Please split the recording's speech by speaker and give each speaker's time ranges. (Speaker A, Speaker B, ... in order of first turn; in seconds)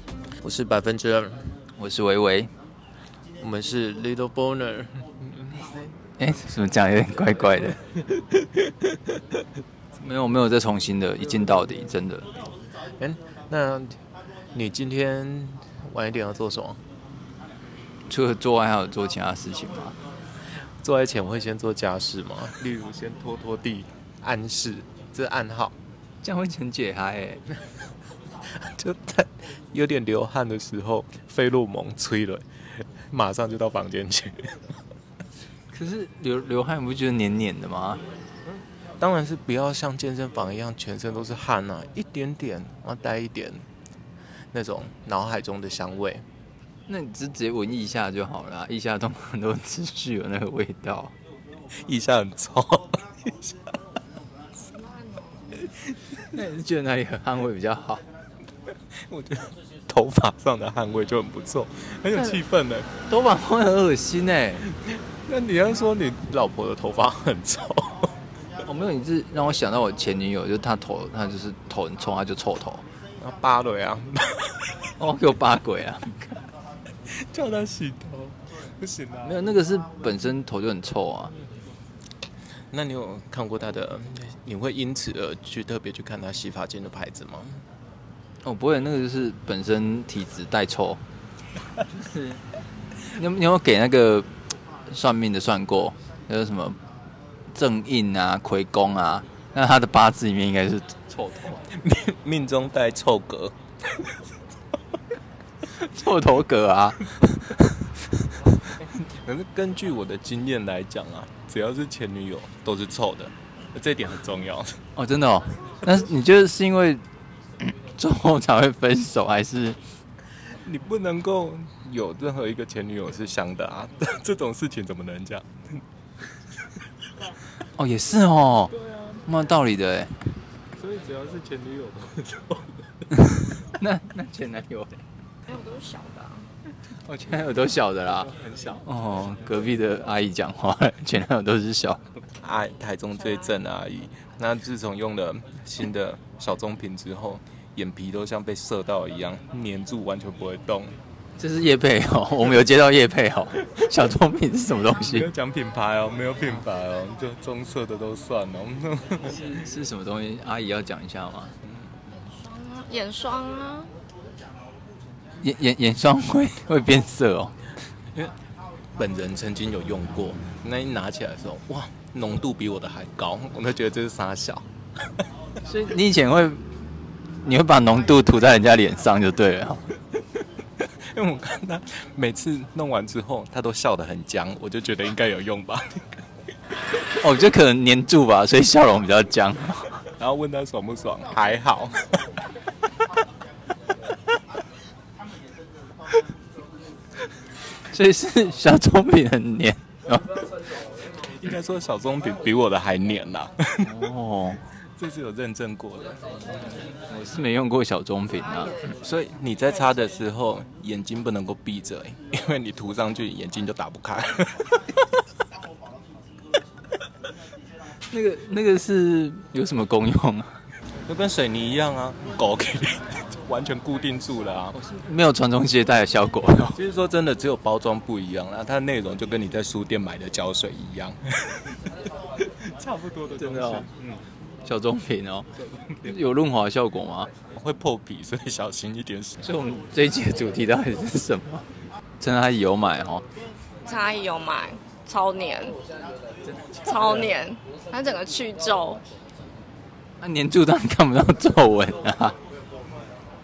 Speaker A: 0.4-1.5, 3.4-5.8, 13.0-14.0, 14.5-16.8, 20.8-25.8, 28.6-34.7, 39.0-43.6, 44.5-46.3, 51.9-53.7, 59.1-62.9, 64.9-68.1, 73.2-74.9, 77.1-79.4, 82.7-87.6, 101.6-104.0, 108.7-114.8, 120.6-125.8, 128.8-129.2, 130.8-132.8, 142.4-150.9, 155.0-159.4, 169.0-174.7, 180.8-186.1, 190.2-192.3, 201.1-203.9, 204.7-206.2, 208.8-215.0, 221.1-224.8, 226.7-234.2, 237.5-239.4
Speaker B: 1.8-2.5, 6.2-7.8, 10.0-12.3, 18.1-20.0, 26.2-27.4, 35.7-38.0, 46.9-51.1, 56.2-58.0, 63.1-64.7, 68.6-72.8, 75.0-76.5, 79.2-81.3, 88.4-91.0, 91.9-92.4, 93.1-94.3, 94.9-96.8, 97.5-101.6, 105.7-107.8, 115.0-117.0, 117.6-119.8, 127.6-128.7, 129.2-130.3, 133.5-135.0, 137.1-142.0, 151.4-155.3, 159.2-161.5, 165.4-167.6, 175.6-176.7, 177.4-179.9, 187.2-190.0, 197.9-200.5, 203.8-204.6, 207.1-208.8, 218.1-220.6, 224.8-226.8, 233.3-233.9, 234.6-237.3, 239.4-241.7, 242.2-243.2, 250.2-252.4
Speaker C: 54.6-55.6, 135.5-136.5, 162.1-163.9, 243.8-245.8, 246.8-249.0